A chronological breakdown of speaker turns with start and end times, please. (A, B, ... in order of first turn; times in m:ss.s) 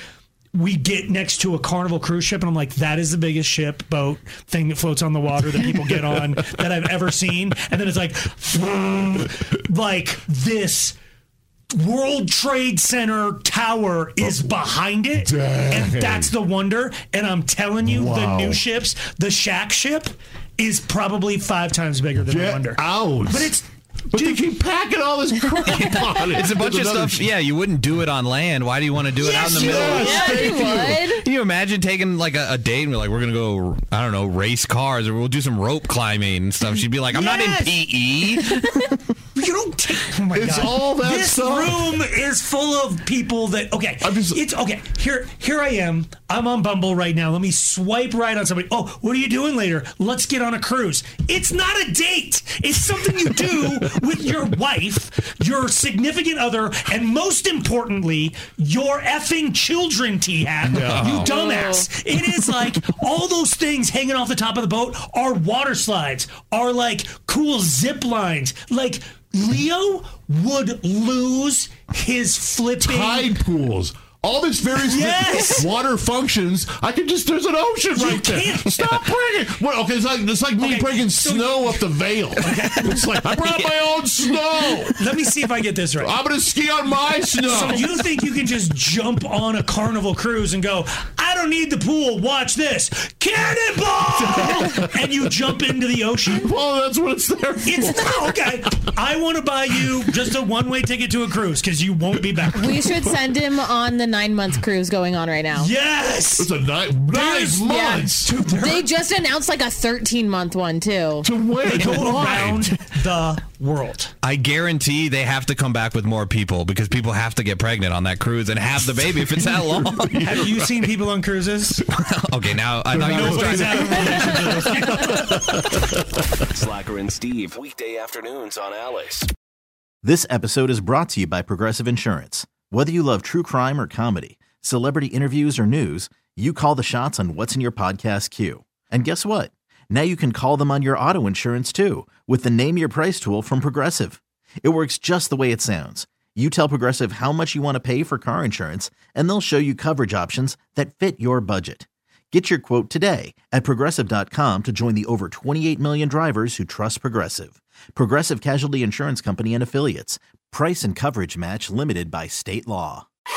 0:00.5-0:11.0 A
0:11.7-0:24.4 A
0:15.2-0:16.3 B
0:17.8-0:18.6 B
0:22.2-0:23.6 B
0:24.1-0:27.3 B
0:25.6-0:30.2 C
0:29.2-0:30.6 A
0:29.4-0:31.0 B
0:29.8-0:31.2 D
0:30.8-0:38.6 C
0:37.1-0:37.9 A
0:39.3-1:13.3 A
0:40.3-0:41.9 B
0:44.0-0:44.4 B
1:00.6-1:01.2 B
1:00.8-1:01.3 C
1:01.1-1:01.9 D
1:12.8-1:25.0 B
1:14.8-1:15.7 A
1:17.9-1:19.0 A
1:20.6-1:23.1 A
1:23.4-1:23.8 C
1:24.9-1:26.2 A
1:26.0-1:27.9 B
1:27.4-1:36.5 A
1:34.2-1:34.9 B
1:36.2-1:38.3 B
1:37.6-1:42.9 A
1:42.6-1:45.7 D
1:45.6-1:46.5 A
1:46.4-1:48.3 B
1:47.1-1:48.9 A
1:47.6-1:51.3 D
1:51.2-1:52.7 B
1:51.6-1:54.1 A
1:51.8-1:52.2 C
1:54.2-2:00.5 C
1:59.0-2:00.6 B
2:00.2-2:01.8 A
2:01.9-2:04.4 C
2:02.9-2:06.0 B
2:03.0-2:05.6 A
2:06.6-2:09.3 E
2:10.0-2:43.1 F